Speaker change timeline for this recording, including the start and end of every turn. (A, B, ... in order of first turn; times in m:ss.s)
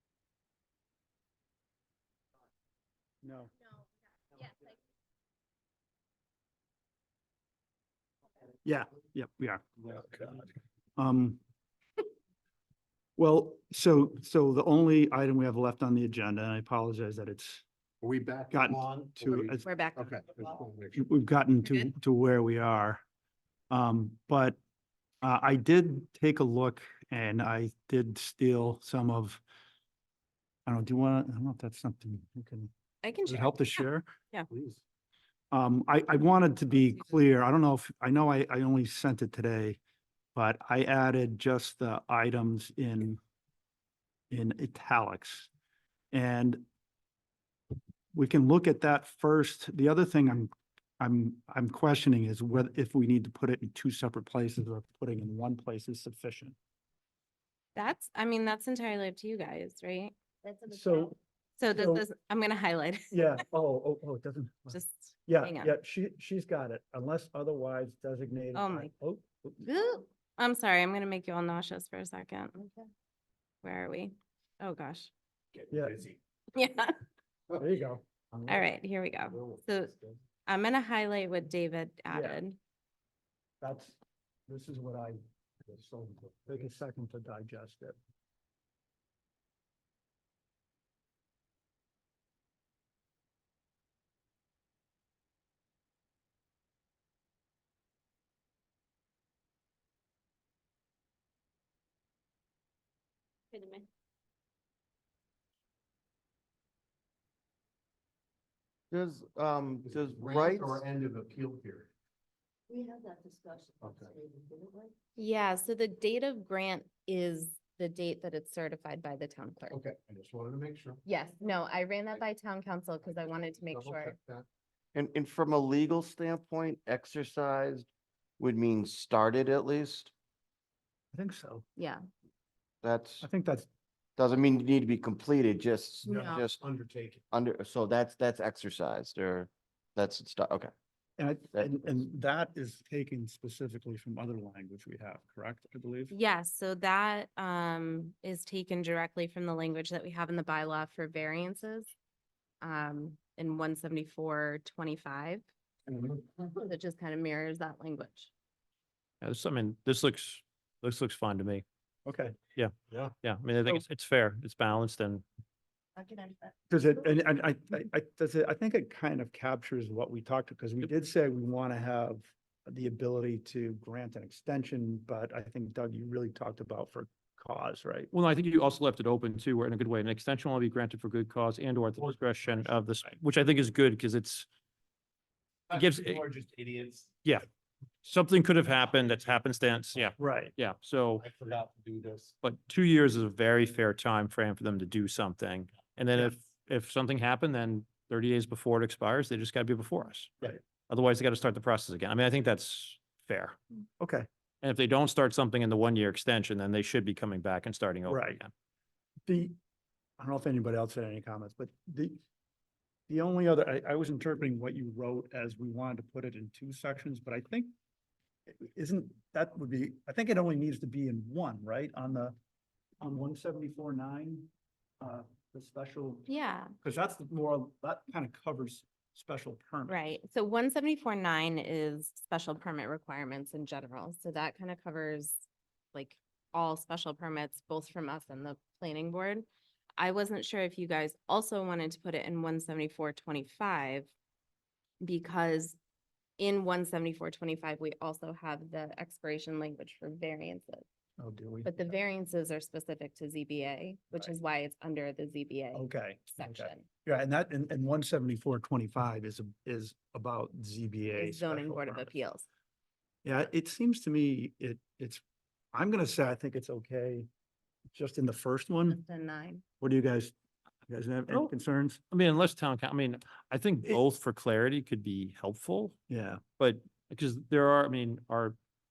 0:03.2-0:03.5 A
0:08.6-0:10.3 A
0:10.0-0:10.4 B
0:11.0-0:11.4 A
0:13.2-0:17.6 A
0:18.0-0:21.0 B
0:18.5-0:19.6 A
0:19.6-0:20.3 C
0:20.9-0:23.0 A
0:23.7-0:24.6 A
0:25.2-0:29.4 A
0:30.6-0:32.7 A
0:33.0-0:34.5 C
0:33.2-0:34.6 A
0:35.5-0:39.8 A
0:40.3-0:43.2 A
0:44.3-0:45.5 A
0:46.1-0:46.6 A
0:48.1-0:56.6 A
0:57.7-1:00.1 C
1:00.7-1:01.2 A
1:01.6-1:03.2 C
1:01.7-1:02.0 A
1:03.1-1:09.6 A
1:04.7-1:05.8 C
1:08.5-1:08.9 C
1:09.6-1:12.8 C
1:13.6-1:15.1 C
1:15.7-1:16.1 A
1:16.5-1:17.0 C
1:17.6-1:18.7 A
1:18.5-1:22.6 C
1:22.1-1:22.4 A
1:23.6-1:28.0 A
1:43.5-1:43.8 D
1:48.9-1:50.8 E
1:49.8-1:51.9 B
1:52.7-1:54.9 D
1:53.8-1:54.2 B
1:55.2-1:59.8 C
1:59.7-2:01.0 B
2:01.0-2:04.2 C
2:03.2-2:04.5 B
2:04.9-2:07.9 E
2:08.4-2:10.1 E
2:11.1-2:11.6 A
2:12.8-2:13.2 E
2:13.2-2:13.7 A
2:14.2-2:16.6 E
2:16.0-2:17.2 B
2:17.3-2:20.7 E
2:21.2-2:26.1 A
2:21.5-2:21.8 E
2:26.1-2:31.9 C
2:32.6-2:35.4 C
2:36.4-2:38.3 C
2:39.2-2:41.6 F
2:42.0-2:42.4 A
2:42.5-2:45.2 F
2:46.0-2:46.3 D
2:46.7-2:58.1 A
2:58.1-3:04.4 F
3:05.7-3:07.1 B
3:05.7-3:06.2 F
3:08.0-3:11.2 F
3:10.2-3:10.5 A
3:11.2-3:12.3 B
3:12.4-3:23.6 F
3:24.0-3:24.3 A
3:24.6-3:28.5 F
3:28.1-3:28.4 A
3:29.2-3:29.5 A
3:30.2-3:32.2 A
3:33.1-3:37.7 A
3:38.5-3:42.3 A
3:43.0-3:46.3 A
3:46.3-3:46.7 C
3:46.8-3:50.0 A
3:49.9-3:55.4 C
3:55.9-3:59.4 C
4:00.0-4:04.1 C
4:05.0-4:05.8 C
4:06.4-4:10.8 C
4:11.2-4:11.9 A
4:11.6-4:16.8 C
4:15.7-4:22.2 A
4:21.2-4:22.4 C
4:23.2-4:25.2 A
4:25.7-4:27.3 A
4:27.9-4:29.0 A
4:28.9-4:29.6 C
4:29.8-4:30.3 A
4:30.9-4:32.0 A
4:32.1-4:36.0 F
4:36.1-4:36.4 A
4:36.6-4:38.6 F